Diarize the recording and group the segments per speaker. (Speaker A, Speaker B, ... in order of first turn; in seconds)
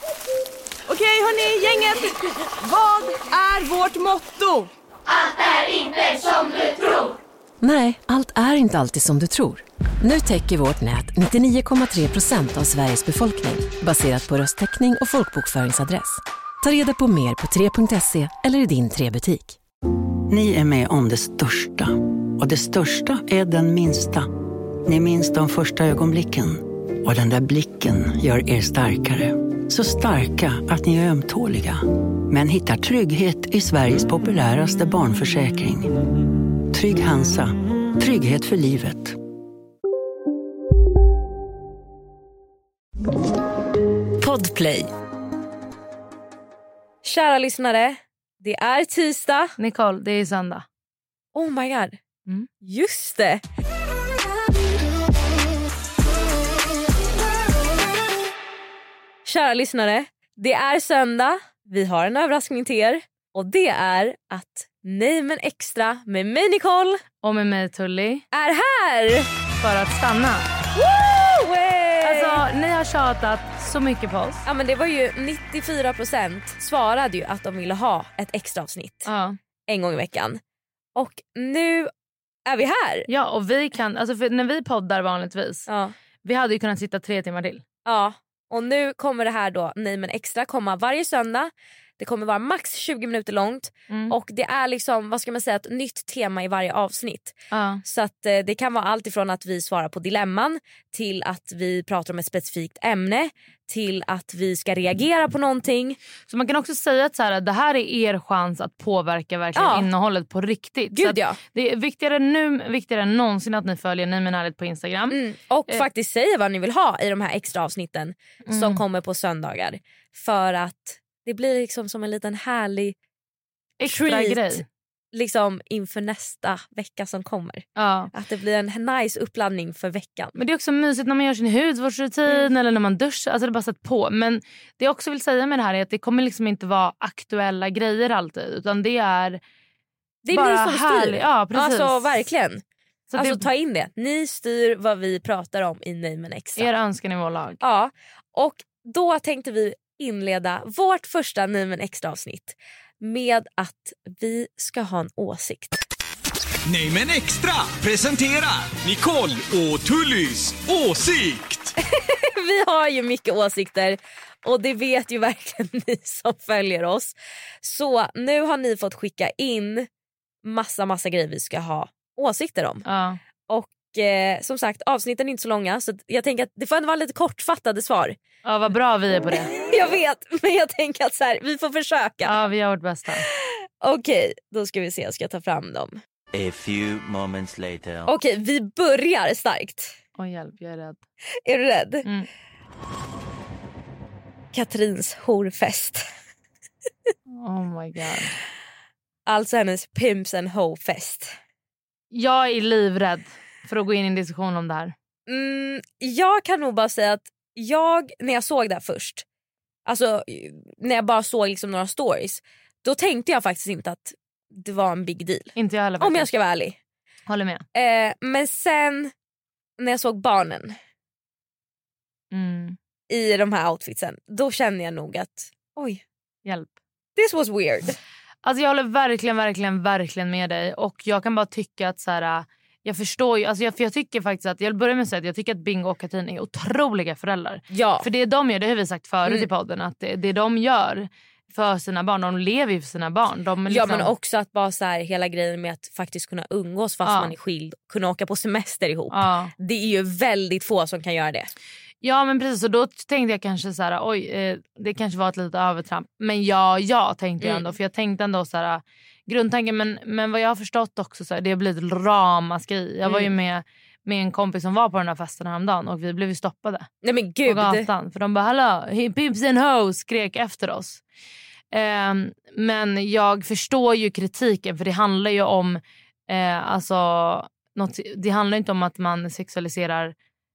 Speaker A: 1.0-2.0, 3.6-4.6
Speaker B: 7.6-19.6
Speaker C: 20.3-24.3, 24.9-35.9, 36.7-39.2, 186.3-188.1
Speaker D: 44.2-44.9, 47.0-49.5, 51.4-52.0, 52.6-53.4, 59.2-67.0, 68.3-69.3, 70.8-72.4, 74.5-79.1, 79.7-80.4, 81.0-81.9, 82.5-83.1, 85.7-85.9, 87.8-106.0, 109.6-109.9, 110.9-111.4, 115.1-123.0, 123.8-124.6, 125.1-130.4, 140.2-142.6, 143.2-146.7, 147.6-155.8, 161.8-169.9, 170.4-172.8, 173.5-178.2, 179.7-182.4, 183.2-186.0, 188.1-189.9, 191.4-192.1, 194.5-196.0, 199.3-201.3, 205.3-209.2, 209.9-216.8, 217.7-219.1, 219.8-220.8, 223.1-226.0, 227.2-228.0, 237.7-238.1, 243.7-251.5, 257.4-257.7, 263.1-263.3, 267.0-267.9
Speaker E: 49.6-50.6, 67.2-68.2, 69.6-70.5, 72.0-74.4, 79.1-79.4, 83.1-85.7, 86.2-87.6, 97.5-97.8, 106.3-115.8, 118.5-118.8, 123.8-124.7, 127.8-128.1, 130.4-139.4, 140.3-142.2, 143.1-143.5, 146.6-147.6, 172.9-173.2, 178.4-179.5, 182.2-183.3, 190.2-191.0, 197.3-198.4, 202.1-204.9, 215.6-216.3, 217.3-217.6, 222.3-222.8, 226.4-226.8, 228.4-244.1, 247.1-247.3, 249.1-249.5, 252.0-266.9, 267.5-271.0, 271.7-280.1
Speaker F: 156.7-161.7